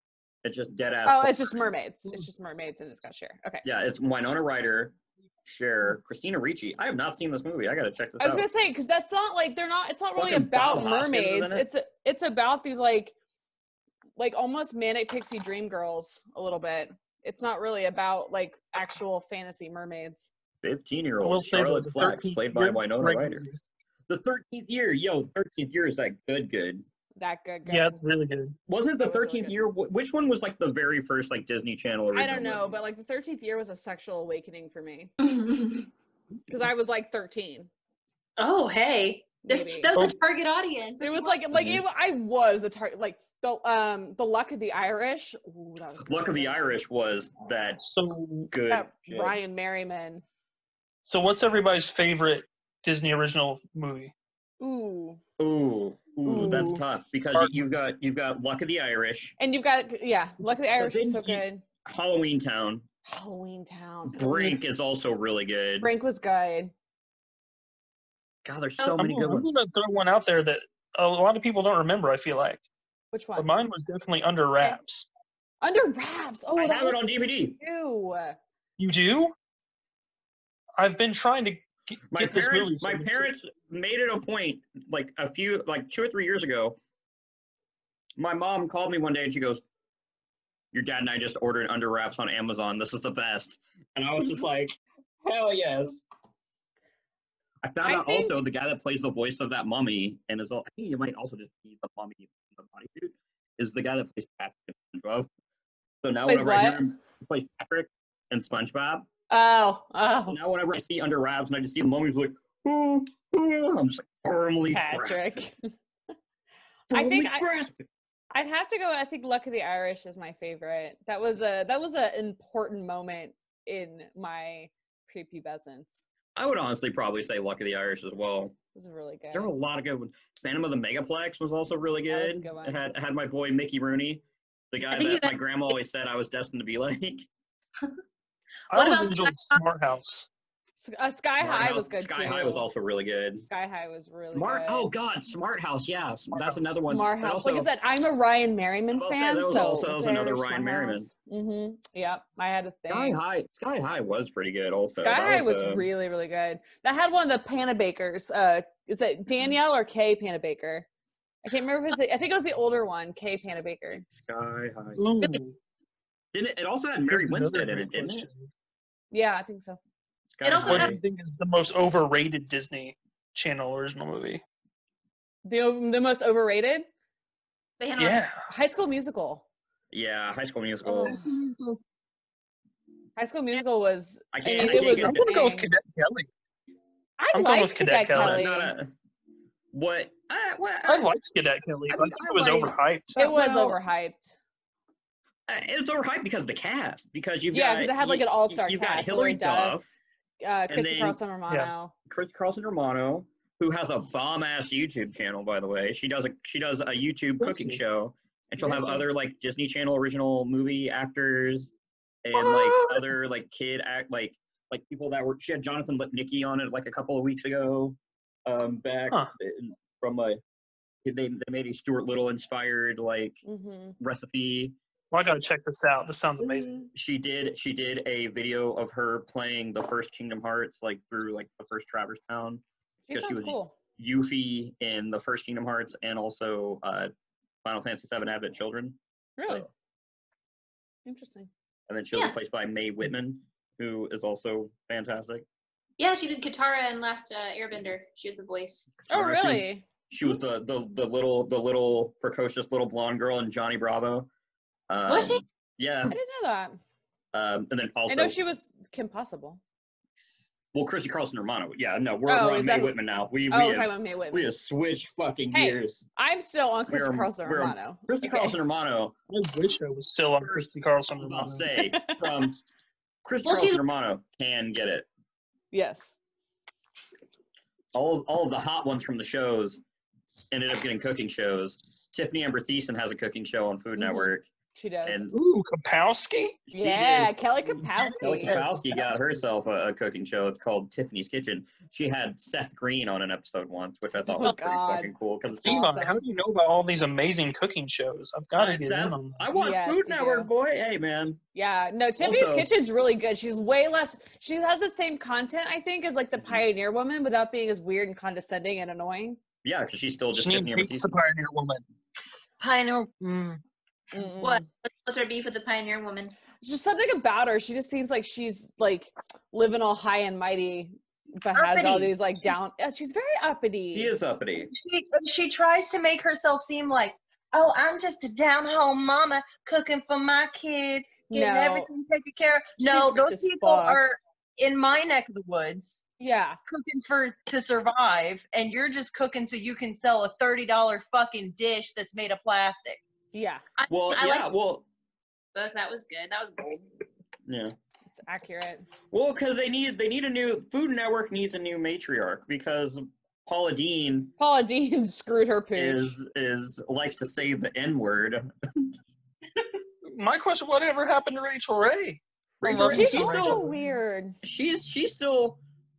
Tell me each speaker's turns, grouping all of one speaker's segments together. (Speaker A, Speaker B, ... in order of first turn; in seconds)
Speaker A: 0.4-1.6, 3.6-8.5, 10.2-11.7, 20.6-23.4, 24.1-26.8, 28.7-32.8, 41.5-41.8, 46.0-47.8, 48.5-49.4, 55.4-59.4, 60.8-62.9, 64.0-65.9, 68.4-69.5, 76.5-77.5, 82.1-86.8, 88.2-89.6, 90.7-96.0, 97.6-105.3, 106.0-109.1, 110.3-115.4, 116.9-117.8, 126.3-128.5, 129.3-137.3, 141.4-143.4, 144.3-147.7, 148.9-151.1, 152.9-155.9, 164.1-165.0, 166.3-168.3, 170.3-171.0, 179.9-181.2, 184.3-185.3, 188.1-188.9, 189.7-191.1, 191.9-193.8, 195.5-199.9, 200.7-201.2, 202.1-220.4, 221.0-223.4, 224.0-224.8, 226.9-237.1, 237.6-239.7, 241.9-245.4, 249.1-254.3, 254.9-256.2, 257.3-258.4, 260.7-266.0, 266.9-269.1, 270.4-272.6, 273.2-275.1, 277.9-279.8, 280.5-284.5, 285.0-285.3, 286.7-296.0, 298.6-301.4, 302.2-302.7, 306.4-306.6, 309.6-311.1, 323.9-324.7, 343.9-344.8, 347.5-347.8, 349.1-354.3, 355.8-358.9, 362.6-363.6, 364.4-365.6
Speaker B: 1.1-3.6, 8.2-13.1, 14.2-20.3, 27.2-28.0, 29.0-29.6, 32.1-35.1, 36.5-37.7, 39.5-39.9, 41.0-46.8, 48.7-50.2, 54.6-55.2, 56.3-56.8, 59.4-61.6, 63.0-64.6, 65.8-66.7, 73.1-73.5, 75.6-78.4, 97.8-98.3, 106.2-106.8, 109.3-110.4, 114.7-115.7, 116.9-117.5, 118.3-126.0, 128.7-129.5, 132.1-132.9, 140.8-142.7, 143.5-144.9, 146.8-153.2, 155.0-160.8, 161.4-164.1, 169.1-169.8, 175.4-176.9, 178.5-179.4, 180.8-181.3, 183.2-185.7, 187.2-188.7, 193.2-194.4, 197.5-199.8, 200.4-201.9, 208.6-209.0, 223.4-223.9, 226.4-226.9, 233.1-233.7, 239.4-239.7, 241.1-241.5, 249.1-249.8, 256.1-256.8, 258.1-259.6, 262.3-263.0, 263.5-264.5, 265.5-268.6, 271.7-272.5, 275.7-276.1, 284.0-285.2, 286.7-288.6, 294.3-296.2, 299.5-300.5, 301.5-309.4, 314.1-314.6, 316.6-324.1, 331.3-331.9, 332.8-334.0, 336.2-336.6, 343.3-343.6, 348.1-348.9, 354.4-356.2, 362.8-364.4
Speaker C: 21.2-23.6, 27.7-28.6, 47.8-48.5, 51.0-54.1, 56.3-56.8, 57.3-57.6, 68.8-72.6, 73.4-75.0, 78.8-79.3, 80.8-83.2, 138.7-140.3, 146.3-146.6, 165.0-165.6, 167.1-168.5, 170.6-174.4, 178.0-178.4, 184.6-186.3, 187.3-188.4, 190.8-193.3, 207.4-207.7, 212.3-213.1, 225.1-226.8, 269.3-271.7, 285.3-286.7, 288.0-289.1, 295.6-299.4, 310.3-311.8, 360.1-363.7
Speaker D: 35.2-35.9, 38.4-41.4, 134.9-135.3, 138.7-139.6, 170.4-170.9, 177.8-178.2, 246.0-248.9, 255.1-255.4, 273.4-273.8, 314.4-316.3, 343.8-344.5, 345.5-346.9
Speaker E: 181.4-181.8, 312.6-313.6, 321.5-322.1, 324.6-336.0, 336.7-343.0